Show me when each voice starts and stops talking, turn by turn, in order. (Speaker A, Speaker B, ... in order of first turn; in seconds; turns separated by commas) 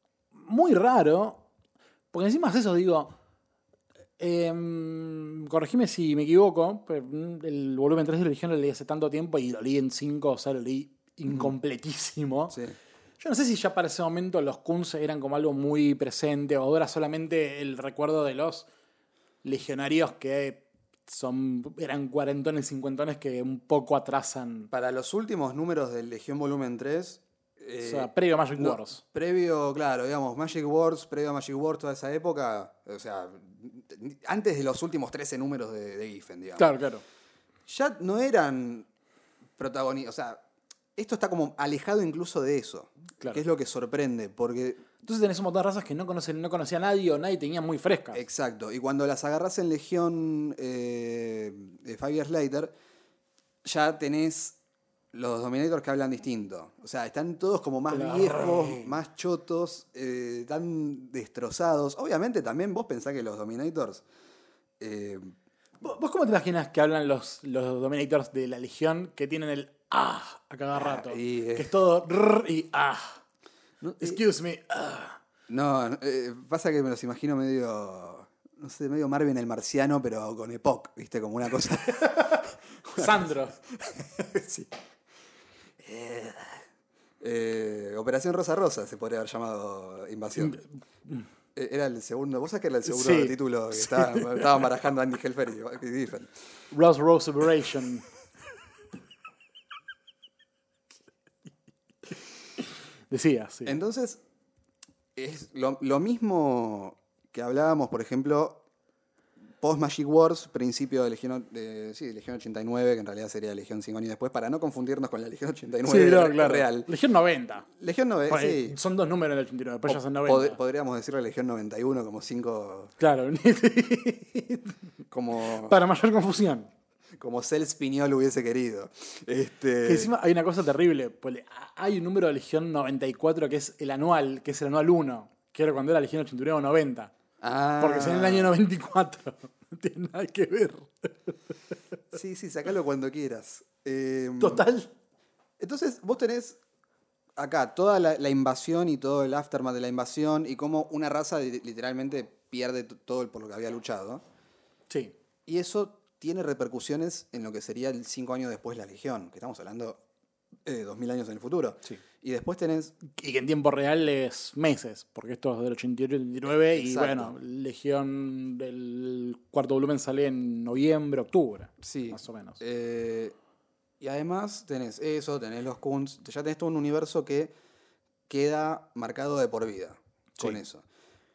Speaker A: 0.3-1.4, Speaker A: 2.1-3.1, Speaker A: 4.2-12.6, Speaker A: 13.2-18.7, Speaker A: 19.4-24.7, Speaker B: 24.7-36.7, Speaker A: 27.8-29.0, Speaker A: 36.6-37.0, Speaker B: 37.6-38.9, Speaker B: 39.6-40.4, Speaker B: 41.0-44.9, Speaker A: 45.0-48.2, Speaker B: 48.1-52.7, Speaker B: 53.6-54.6, Speaker B: 55.1-64.0, Speaker A: 57.9-58.9, Speaker B: 64.8-65.3, Speaker A: 65.8-73.2, Speaker B: 70.7-71.7, Speaker B: 73.8-74.2, Speaker A: 74.0-75.2, Speaker B: 75.5-84.7, Speaker A: 82.1-83.5, Speaker B: 85.8-86.6, Speaker B: 87.2-90.6, Speaker A: 90.4-91.3, Speaker B: 91.5-96.3, Speaker A: 92.9-94.5, Speaker A: 96.7-98.0, Speaker A: 103.1-103.8, Speaker B: 103.6-104.2, Speaker B: 105.2-108.6, Speaker B: 109.6-116.9, Speaker A: 115.8-117.7, Speaker B: 117.8-118.8, Speaker A: 118.3-120.6, Speaker B: 119.9-122.9, Speaker A: 123.0-124.8, Speaker B: 125.1-125.7, Speaker A: 125.6-126.7, Speaker B: 127.2-130.1, Speaker A: 129.8-137.1, Speaker B: 137.4-138.6, Speaker A: 137.8-141.1, Speaker B: 142.1-144.7, Speaker A: 144.4-144.9, Speaker B: 145.6-146.6, Speaker B: 147.4-154.2, Speaker B: 155.4-160.0, Speaker B: 160.6-162.9, Speaker A: 163.1-172.6, Speaker B: 166.7-167.3, Speaker B: 171.8-173.3, Speaker B: 174.0-177.5, Speaker B: 178.3-180.8